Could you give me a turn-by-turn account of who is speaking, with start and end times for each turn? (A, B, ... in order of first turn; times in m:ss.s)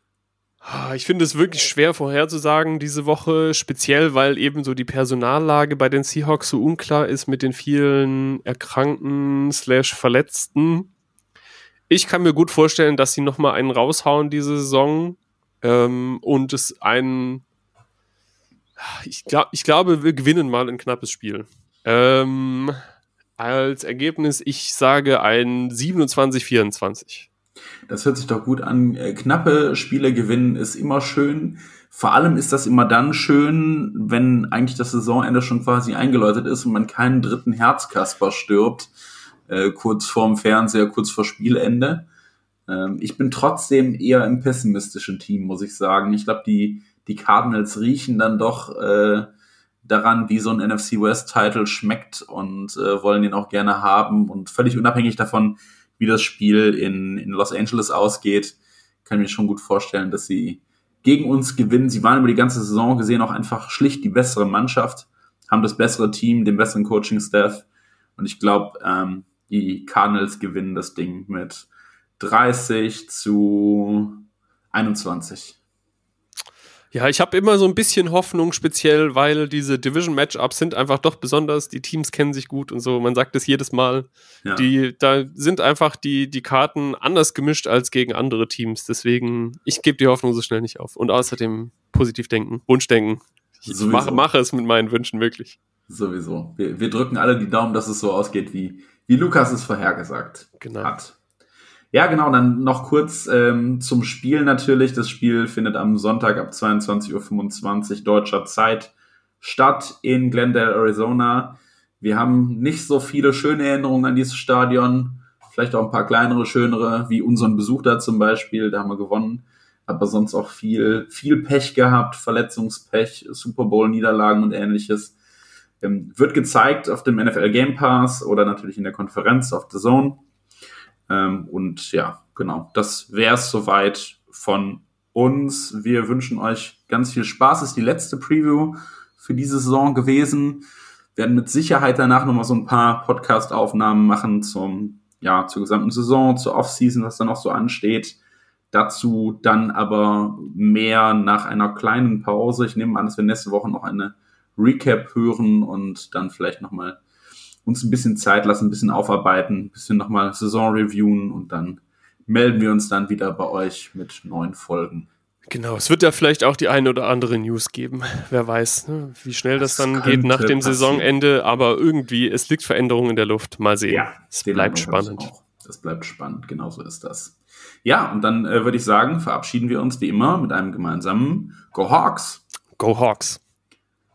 0:00.6-0:10.9 A
0:11.9-0:17.4 A
0:18.8-0:22.8 A
0:23.4-0:27.3 A
0:27.9-0:38.9 B
0:39.5-0:42.1 B
0:42.7-0:49.3 B
0:49.8-1:07.7 B
1:08.2-1:11.7 B
1:12.2-1:15.6 B
1:16.9-1:35.6 A
1:24.4-1:24.7 B
1:33.7-1:34.3 B
1:35.9-1:41.2 B
1:40.6-1:41.0 A
1:41.9-2:05.2 B
2:05.8-2:10.2 B
2:11.1-2:28.2 B
2:28.7-2:37.0 B
2:37.6-2:45.1 B
2:45.5-2:55.3 A
2:49.6-2:51.1 B
2:53.9-3:02.4 B
3:02.8-3:03.4 A